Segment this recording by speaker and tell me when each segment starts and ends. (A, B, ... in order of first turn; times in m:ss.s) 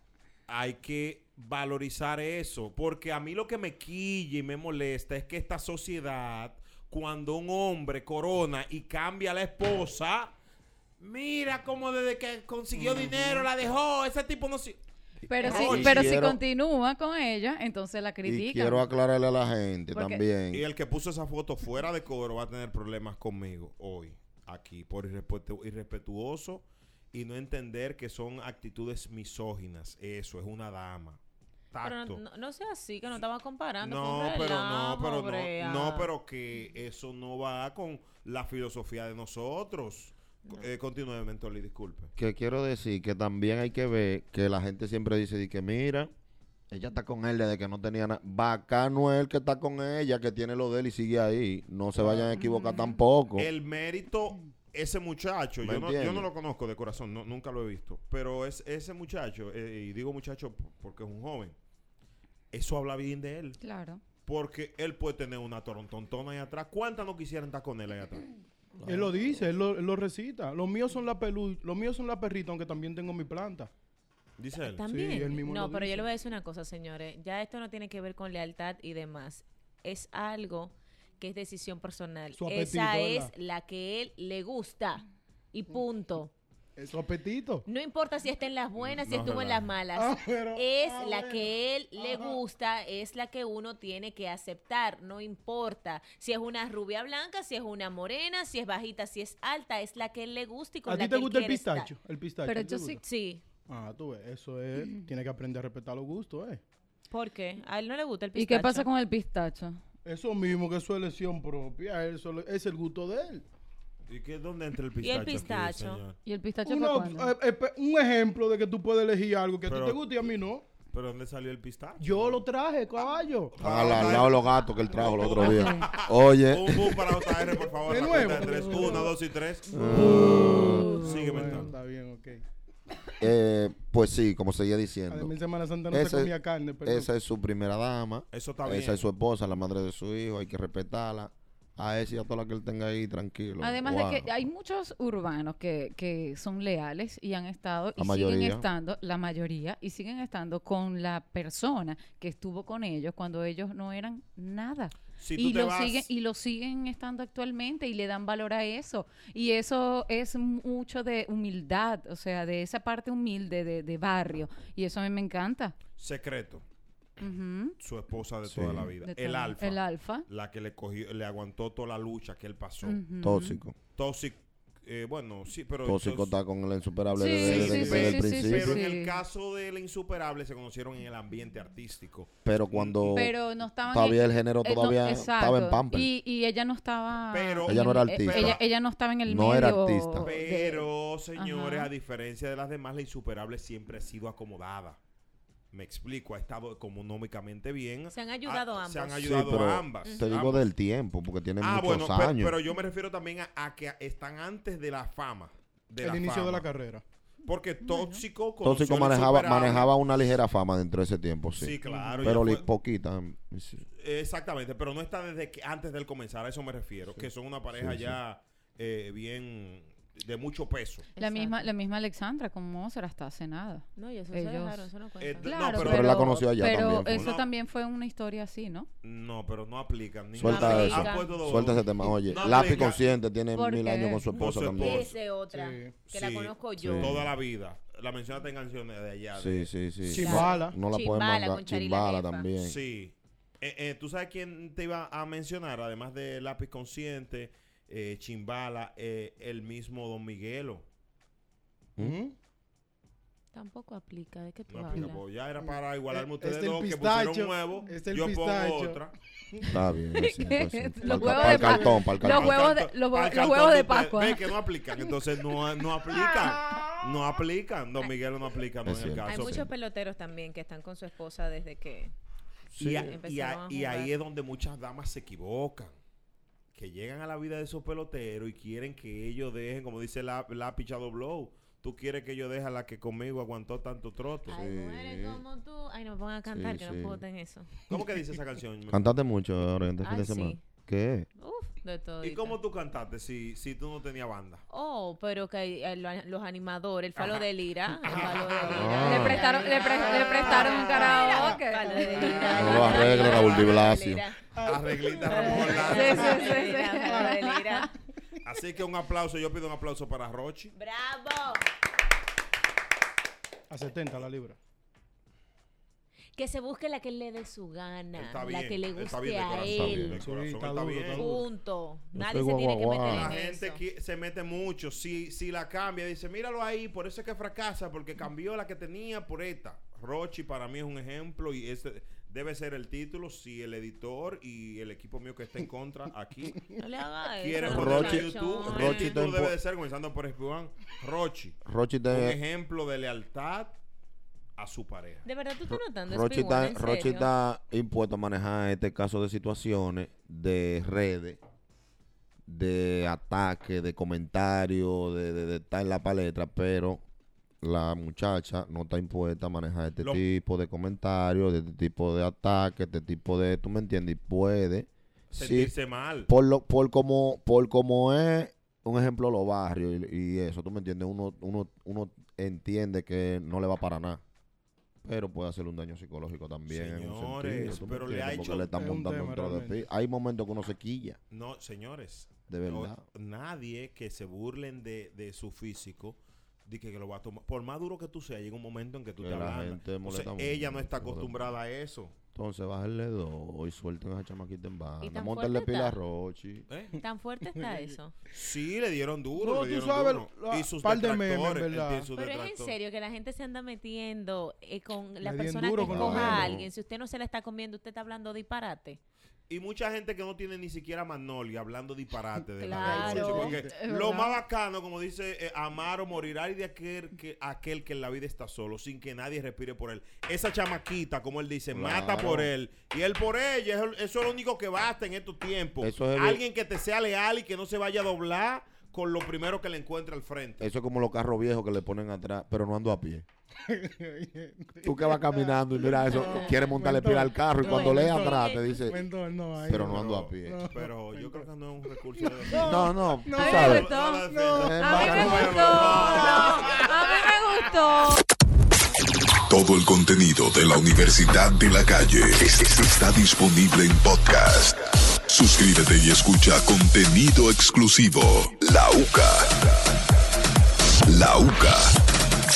0:00.5-0:10.3 A
0:11.0-0:14.8 A
0:12.8-0:13.4 B
0:15.3-0:18.9 C
0:15.4-0:16.1 A
0:15.4-0:16.4 D
0:18.2-0:20.6 D
0:19.9-0:20.2 C
0:20.5-0:31.2 A
0:31.7-0:32.2 A
0:31.8-0:36.1 E
0:33.8-0:42.1 A
0:42.2-0:46.1 D
0:46.7-0:53.5 D
0:52.4-0:53.0 C
0:53.3-1:01.5 A
0:55.6-0:56.3 D
1:02.5-1:03.6 A
1:03.6-1:04.0 C
1:04.2-1:08.2 A
1:08.8-1:09.2 D
1:08.8-1:13.7 B
1:14.4-1:14.8 A
1:14.6-1:26.3 E
1:14.9-1:16.1 B
1:22.3-1:23.3 B
1:26.8-1:27.6 B
1:27.6-1:41.9 E
1:28.8-1:29.6 A
1:29.9-1:32.4 B
1:40.8-1:43.0 B
1:42.4-1:43.0 C
1:43.0-1:43.4 E
1:43.7-1:46.6 B
1:47.1-1:48.9 E
1:48.3-1:49.8 C
1:50.0-1:53.4 B
1:54.1-1:56.2 A
1:55.0-1:56.0 E
1:56.2-1:57.3 C
1:56.6-2:00.6 B
1:59.6-2:00.0 A
2:00.9-2:02.4 A
2:02.0-2:03.9 B
2:03.5-2:10.4 A
2:03.6-2:07.2 D
2:05.4-2:05.9 C
2:07.8-2:09.1 B
2:09.7-2:11.0 E
2:09.7-2:10.8 D
2:10.0-2:12.4 B
2:10.4-2:11.1 C
2:11.0-2:11.7 A
2:13.2-2:15.3 D
2:15.1-2:17.1 B
2:15.9-2:16.3 D
2:16.8-2:24.3 D
2:18.3-2:19.0 A
2:23.6-2:45.7 C
2:28.0-2:28.6 D
2:35.2-2:36.1 A
2:46.0-2:46.6 A
2:47.2-2:47.8 C
2:47.8-2:53.0 A
2:48.4-2:48.9 D
2:49.0-2:50.2 C
2:52.8-2:53.6 C
2:53.2-2:53.8 D
2:53.9-2:56.3 A
2:55.8-2:58.8 D
2:57.2-2:59.1 C
2:57.4-3:03.3 A
3:02.4-3:03.3 D
3:03.1-3:11.9 C
3:03.9-3:06.1 D
3:07.3-3:08.6 A
3:07.6-3:08.6 D
3:09.2-3:10.3 D
3:10.2-3:15.0 A
3:15.7-3:20.7 A
3:18.1-3:19.4 E
3:19.2-3:22.6 D
3:20.0-3:20.4 E
3:21.6-3:26.6 A
3:26.0-3:27.0 B
3:27.4-3:29.9 A
3:27.8-3:28.2 C
3:28.6-3:33.8 D
3:31.6-3:32.7 A
3:31.9-3:32.4 B
3:34.0-3:41.0 A
3:37.1-3:38.2 D
3:41.1-3:41.7 E
3:41.2-3:44.9 C
3:44.0-3:45.5 E
3:45.2-3:46.3 A
3:45.4-3:48.9 C
3:45.7-3:47.3 D
3:46.8-3:47.4 A
3:49.0-3:53.1 A
3:50.3-3:55.1 D
3:50.4-3:51.4 E
3:53.5-3:54.2 C
3:54.3-3:55.2 A
3:54.8-3:57.2 E
3:55.5-3:56.0 B
3:56.0-3:59.7 A
3:56.8-3:57.3 D
3:59.3-4:02.8 D
4:00.0-4:00.8 B
4:00.2-4:02.4 E
4:02.6-4:10.8 A
4:12.0-4:12.3 B
4:13.5-4:15.2 E
4:14.7-4:19.1 A
4:15.6-4:19.0 B
4:19.7-4:22.6 D
4:20.4-4:24.4 C
4:21.0-4:21.9 B
4:22.2-4:29.7 A
4:26.2-4:26.9 B
4:28.8-4:29.7 D
4:29.2-4:32.1 E
4:32.7-4:35.9 A
4:32.8-4:33.1 D
4:33.0-4:34.1 E
4:36.7-4:44.6 A
4:44.5-4:47.8 E
4:44.5-4:45.4 D
4:46.5-4:47.2 D
4:47.9-4:49.1 A
4:48.9-4:51.3 D
4:50.0-4:50.6 E
4:51.4-4:52.6 E
4:52.2-4:54.6 A
4:54.7-5:04.4 E
4:57.2-4:57.4 A
4:58.0-5:01.2 A
4:58.7-4:59.4 D
4:59.0-5:02.4 C
5:02.0-5:03.9 A
5:02.5-5:04.2 D
5:04.5-5:06.5 B
5:04.6-5:06.4 A
5:05.3-5:07.9 E
5:05.9-5:07.9 C
5:07.1-5:07.4 B
5:08.4-5:10.7 A
5:10.7-5:11.6 E
5:13.7-5:14.6 B
5:16.4-5:20.2 E
5:18.1-5:21.3 A
5:19.6-5:20.2 D
5:20.2-5:21.4 B
5:21.2-5:23.8 E
5:22.1-5:23.3 D
5:23.0-5:36.7 A
5:36.8-5:39.1 E
5:37.4-5:41.6 A
5:37.6-5:39.5 D
5:41.6-5:42.4 D
5:42.1-5:43.8 A
5:44.6-5:45.2 A
5:45.2-5:47.3 E
5:45.7-5:51.4 D
5:52.4-5:57.0 D
5:57.6-6:05.7 D
6:05.3-6:06.3 A
6:06.2-6:14.2 D
6:15.0-6:21.2 D
6:16.7-6:18.7 A
6:18.7-6:19.8 B
6:21.3-6:32.1 A
6:22.5-6:23.0 D
6:29.2-6:31.5 D
6:32.3-6:36.7 D
6:35.0-6:36.0 E
6:36.7-6:37.0 A
6:37.0-6:38.1 E
6:38.3-6:42.7 A
6:39.4-6:42.1 B
6:42.2-6:49.0 E
6:45.2-6:46.6 B
6:45.8-6:46.7 D
6:49.5-7:10.6 A
6:52.6-6:53.6 E
6:52.7-6:53.6 B
6:53.7-6:54.4 C
7:01.7-7:02.5 D
7:05.8-7:06.4 D
7:10.6-7:13.2 D
7:13.7-7:21.5 B
7:14.8-7:19.0 D
7:16.2-7:16.5 E
7:17.6-7:18.8 E
7:19.6-7:20.6 D
7:19.8-7:22.9 A
7:22.2-7:26.9 B
7:22.6-7:23.9 D
7:23.3-7:24.2 C
7:23.4-7:26.7 A
7:24.6-7:25.6 D
7:24.8-7:28.2 C
7:29.5-7:39.8 F
7:41.1-7:42.0 F